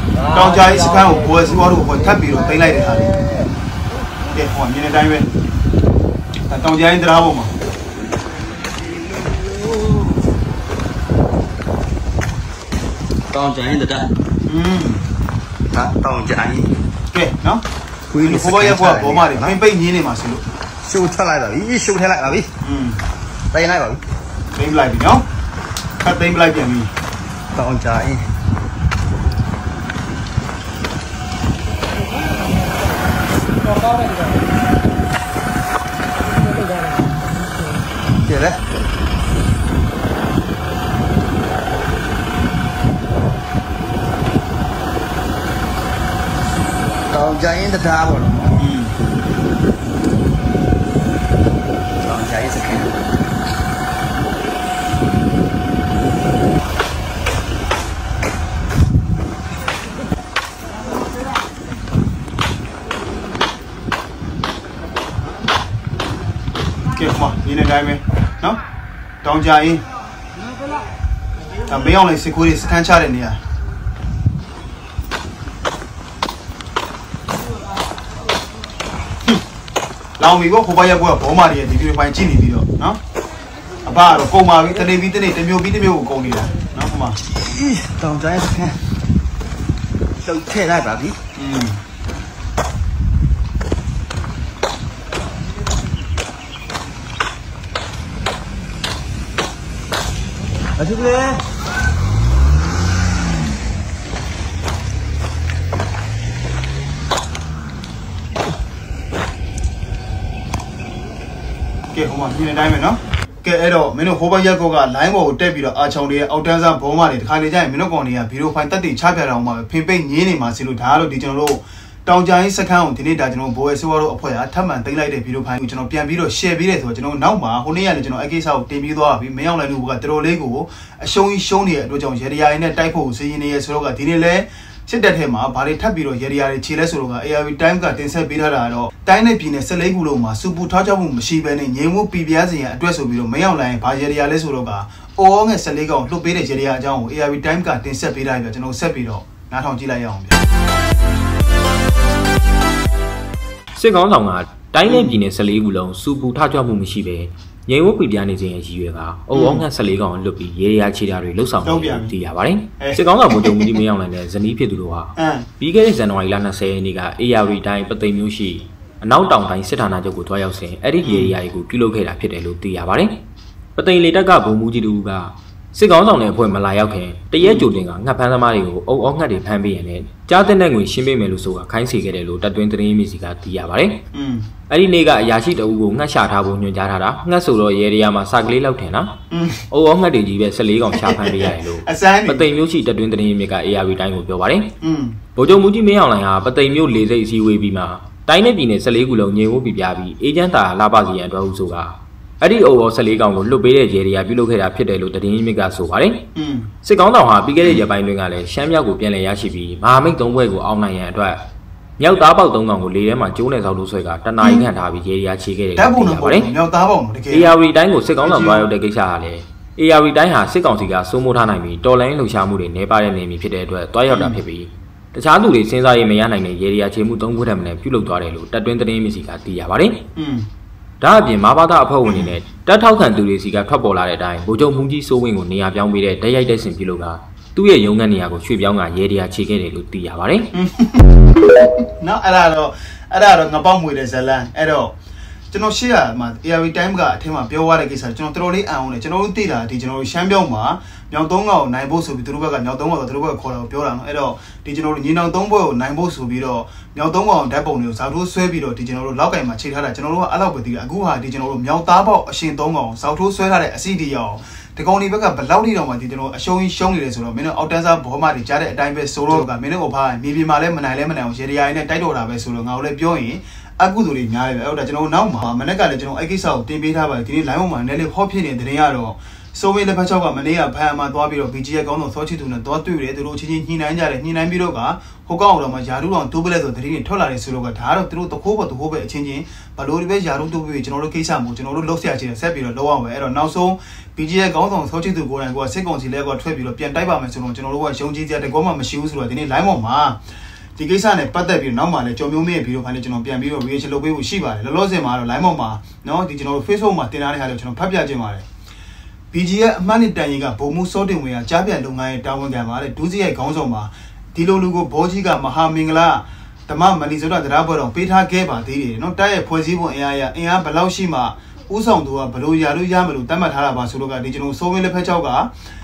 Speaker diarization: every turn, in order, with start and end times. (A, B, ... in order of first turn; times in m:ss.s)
0:00.3-0:03.1 A
0:04.3-0:05.3 A
0:06.5-0:07.5 A
0:13.3-0:14.1 B
0:14.4-0:15.0 A
0:15.7-0:16.7 B
0:17.1-0:17.6 A
0:18.1-0:19.6 B
0:18.2-0:20.4 A
0:20.8-0:22.5 B
0:22.6-0:23.0 A
0:23.5-0:24.0 B
0:24.5-0:25.2 A
0:26.0-0:26.9 A
0:27.5-0:28.2 B
0:38.2-0:38.6 B
0:47.1-0:48.6 B
0:48.6-0:48.9 A
0:52.0-0:52.9 B
1:06.9-1:08.6 A
1:09.2-1:09.8 A
1:11.7-1:13.4 A
1:20.2-1:23.0 A
1:23.8-1:27.2 A
1:27.4-1:28.8 B
1:30.2-1:31.2 B
1:31.4-1:31.8 A
1:51.9-2:30.4 A
2:33.7-2:53.2 C
2:34.8-2:35.2 A
2:39.3-2:39.6 A
2:41.6-2:42.1 A
2:42.8-2:43.8 A
2:45.2-2:45.5 A
2:51.0-2:51.4 A
2:53.8-3:04.0 C
2:57.4-2:57.7 A
3:04.1-3:04.5 A
3:04.7-3:09.2 C
3:09.3-3:09.6 A
3:09.7-3:14.7 C
3:10.9-3:12.5 A
3:14.8-3:15.2 A
3:15.4-3:26.2 C
3:26.3-3:26.7 A
3:26.8-3:31.4 C
3:27.6-3:27.9 A
3:32.0-3:36.5 C
3:34.4-3:34.6 A
3:35.8-3:37.5 A
3:37.3-3:50.0 C
3:38.2-3:38.7 A
3:44.1-3:44.4 A
3:50.2-3:50.4 A
3:51.0-4:00.5 C
3:52.0-3:52.3 A
4:00.5-4:01.2 A
4:02.0-4:04.9 A
4:05.5-5:00.2 A
5:00.8-5:08.4 A
5:09.3-5:25.5 A